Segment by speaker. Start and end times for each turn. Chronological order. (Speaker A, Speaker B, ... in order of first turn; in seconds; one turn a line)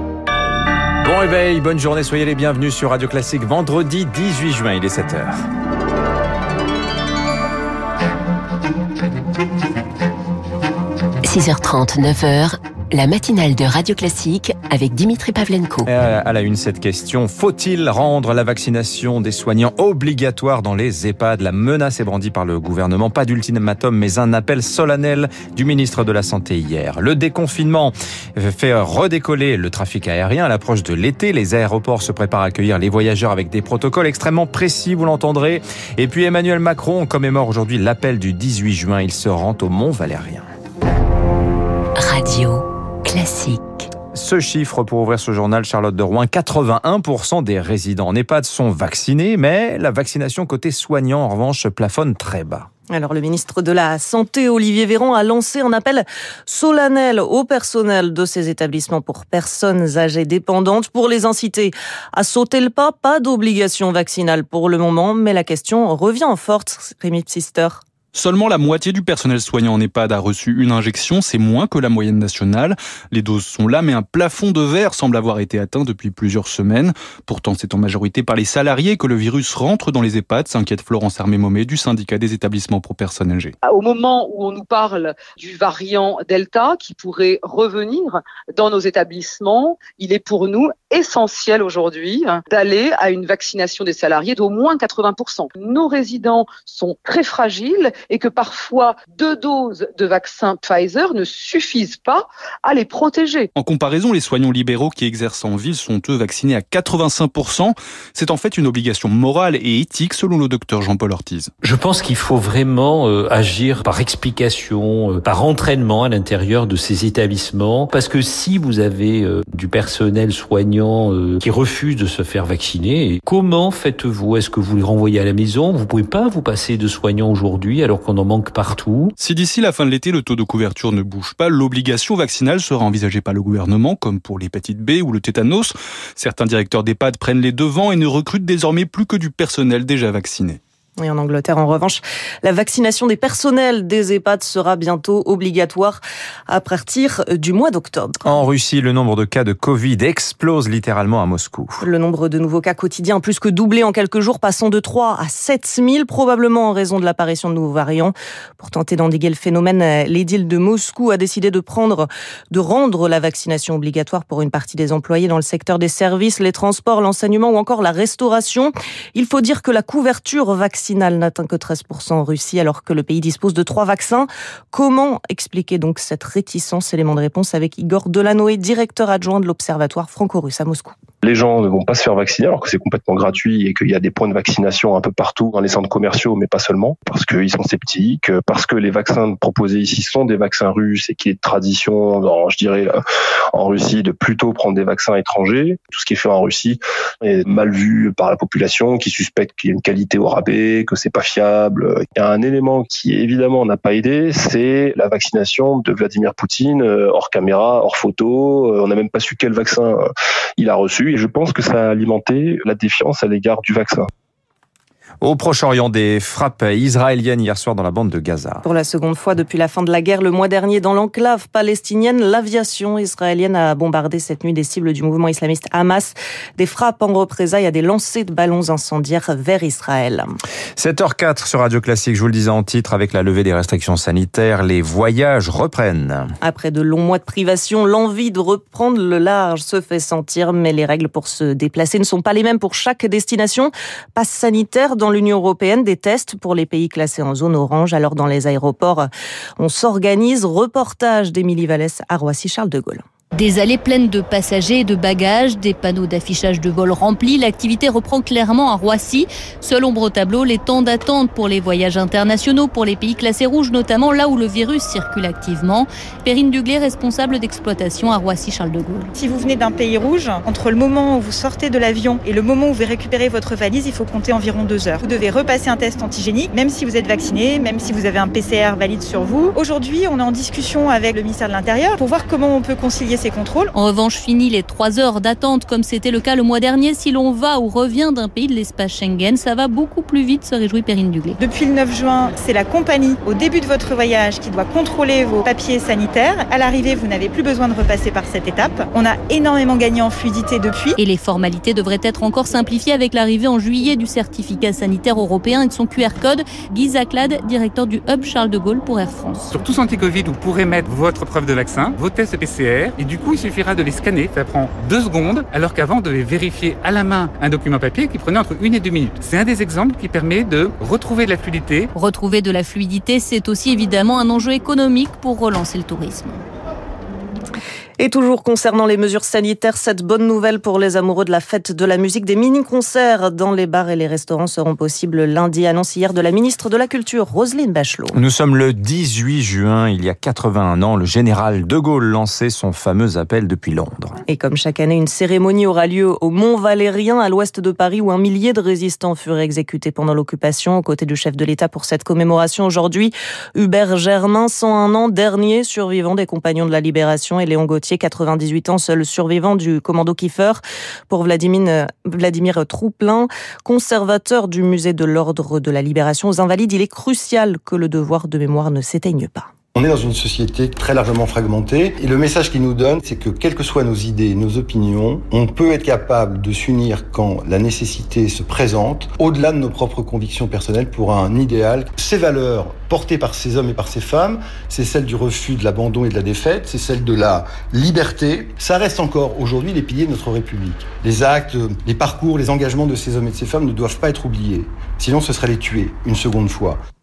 Speaker A: 1.0-5.4
Speaker B: 11.2-15.9
Speaker A: 15.8-40.4
Speaker B: 42.0-43.9
Speaker A: 44.1-52.7
Speaker C: 52.9-67.8
Speaker D: 68.1-83.5
Speaker E: 83.6-103.5
Speaker D: 103.5-111.5
Speaker F: 111.6-129.1
Speaker D: 129.2-140.6
Speaker C: 141.0-148.2
Speaker A: 148.2-151.8
Speaker C: 151.8-180.9
Speaker G: 181.2-193.0
Speaker G: 193.5-210.0
Speaker G: 210.6-214.1
Speaker A: 215.2-218.6
Speaker C: 218.6-230.3
Speaker A: 230.8-236.3
Speaker C: 236.4-249.1
Speaker C: 249.6-253.0
Speaker H: 253.3-269.1
Speaker I: 269.2-283.7
Speaker H: 283.7-291.4
Speaker I: 291.4-301.0
Speaker H: 301.0-309.4
Speaker J: 309.5-321.9
Speaker H: 321.9-326.4
Speaker C: 328.0-338.2
Speaker A: 338.1-344.2
Speaker C: 344.3-369.5
Speaker K: 369.7-396.8